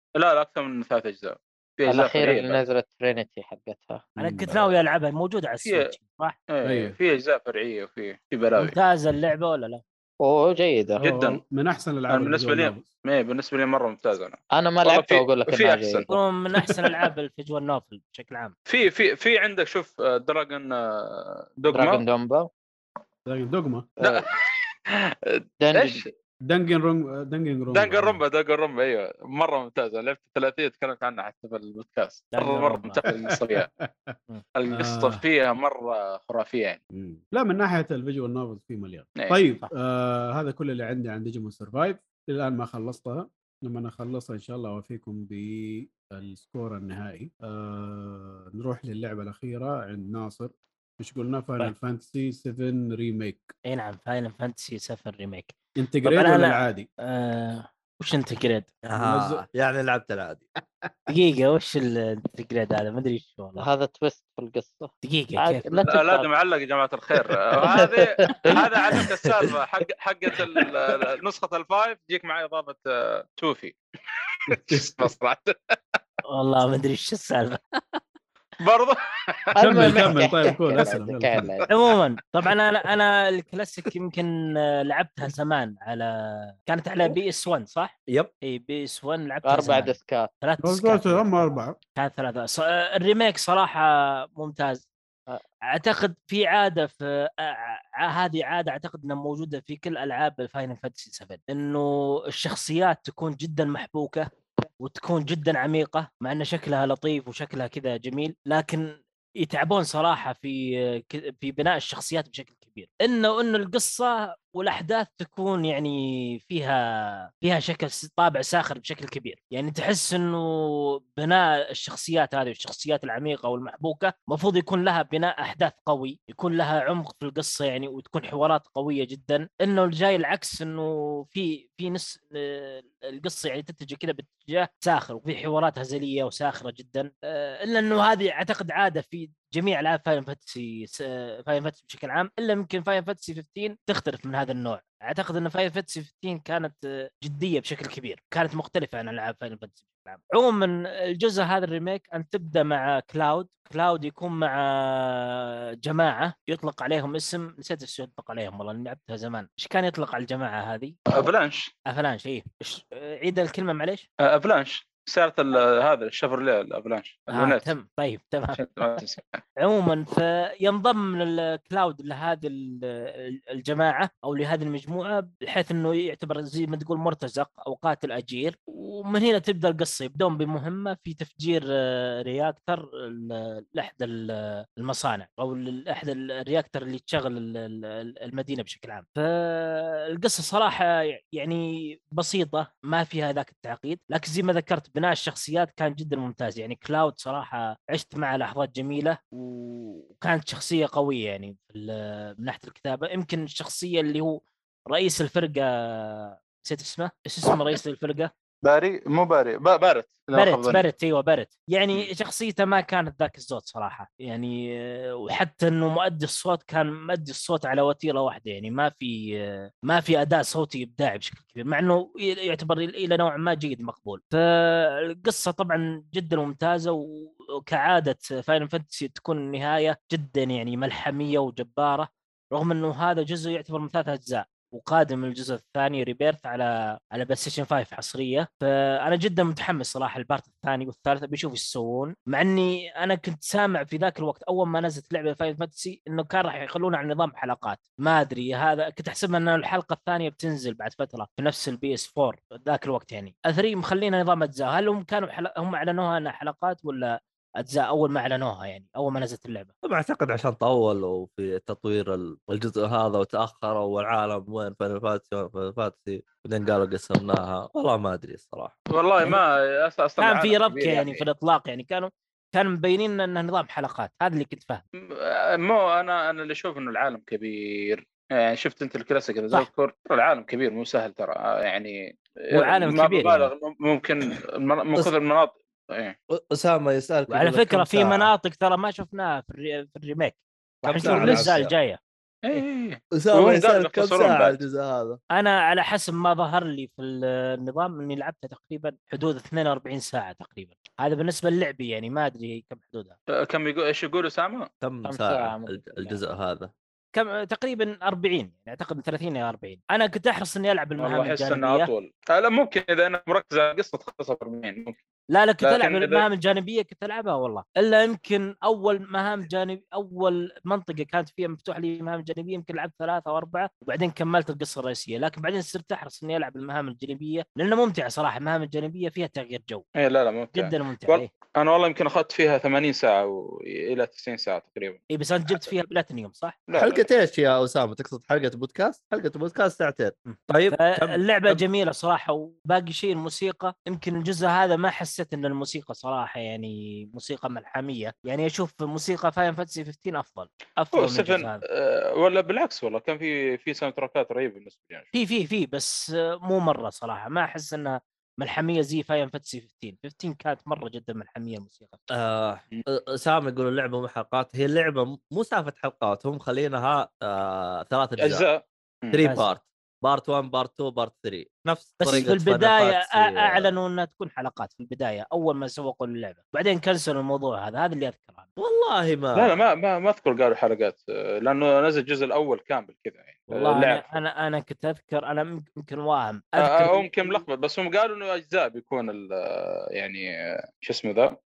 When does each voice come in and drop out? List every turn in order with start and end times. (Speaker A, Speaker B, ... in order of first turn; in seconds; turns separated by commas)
Speaker A: 0.2-2.6, Speaker B: 1.9-4.1, Speaker C: 4.2-4.7, Speaker D: 4.2-6.4, Speaker A: 5.6-5.9, Speaker A: 6.5-8.8, Speaker C: 6.6-7.0, Speaker D: 8.6-9.8, Speaker B: 10.2-11.0, Speaker C: 11.0-12.9, Speaker A: 11.0-11.4, Speaker A: 12.1-16.1, Speaker B: 14.6-16.1, Speaker D: 16.1-18.5, Speaker A: 18.7-22.0, Speaker B: 21.7-22.5, Speaker C: 23.3-23.9, Speaker B: 24.0-24.3, Speaker A: 24.0-24.4, Speaker A: 24.9-26.1, Speaker B: 25.6-26.1, Speaker C: 26.5-28.2, Speaker A: 27.7-33.7, Speaker D: 32.3-33.0, Speaker C: 33.3-34.2, Speaker A: 34.6-36.8, Speaker C: 34.7-35.2, Speaker C: 36.9-53.5, Speaker D: 53.7-58.8, Speaker C: 55.8-56.9, Speaker E: 58.9-60.5, Speaker C: 59.0-59.5, Speaker C: 60.8-61.1, Speaker D: 61.1-63.7, Speaker B: 63.6-66.3, Speaker D: 65.0-65.9, Speaker A: 65.9-75.8, Speaker B: 67.5-69.6, Speaker C: 74.5-75.1, Speaker D: 76.3-78.0, Speaker A: 78.6-80.1, Speaker B: 79.6-81.7, Speaker C: 79.6-81.5, Speaker D: 81.7-91.5, Speaker B: 89.5-90.3, Speaker C: 90.6-91.8, Speaker D: 92.0-94.9, Speaker D: 95.7-104.3, Speaker D: 104.8-161.0, Speaker A: 161.1-161.7, Speaker D: 161.9-164.1, Speaker A: 164.2-167.7, Speaker D: 167.3-169.0, Speaker A: 168.5-169.4, Speaker D: 169.6-204.4, Speaker D: 204.9-208.3, Speaker A: 208.6-210.8, Speaker D: 210.3-259.7, Speaker E: 259.8-268.8, Speaker A: 268.9-271.3, Speaker D: 270.2-274.8, Speaker A: 275.0-286.2, Speaker D: 282.5-283.5, Speaker E: 286.3-288.3, Speaker D: 287.3-292.0, Speaker E: 290.8-291.7, Speaker A: 291.0-291.5, Speaker A: 292.4-294.6, Speaker E: 293.1-295.2, Speaker D: 295.4-303.2, Speaker A: 303.4-304.7, Speaker E: 304.8-306.7, Speaker B: 305.1-306.2, Speaker D: 307.1-311.9, Speaker A: 311.0-315.0, Speaker D: 315.3-329.8, Speaker A: 315.6-316.2, Speaker A: 330.0-335.7, Speaker D: 330.5-331.3, Speaker D: 335.1-336.6, Speaker A: 336.7-337.1, Speaker E: 336.8-341.6, Speaker D: 340.3-351.6, Speaker A: 350.9-355.1, Speaker D: 355.1-362.0, Speaker E: 362.1-368.5, Speaker A: 368.2-369.2, Speaker E: 369.1-373.8, Speaker D: 369.2-369.5, Speaker D: 372.0-378.5, Speaker E: 378.6-379.6, Speaker A: 379.4-384.1, Speaker D: 383.5-387.4, Speaker A: 386.6-390.3, Speaker A: 390.8-391.4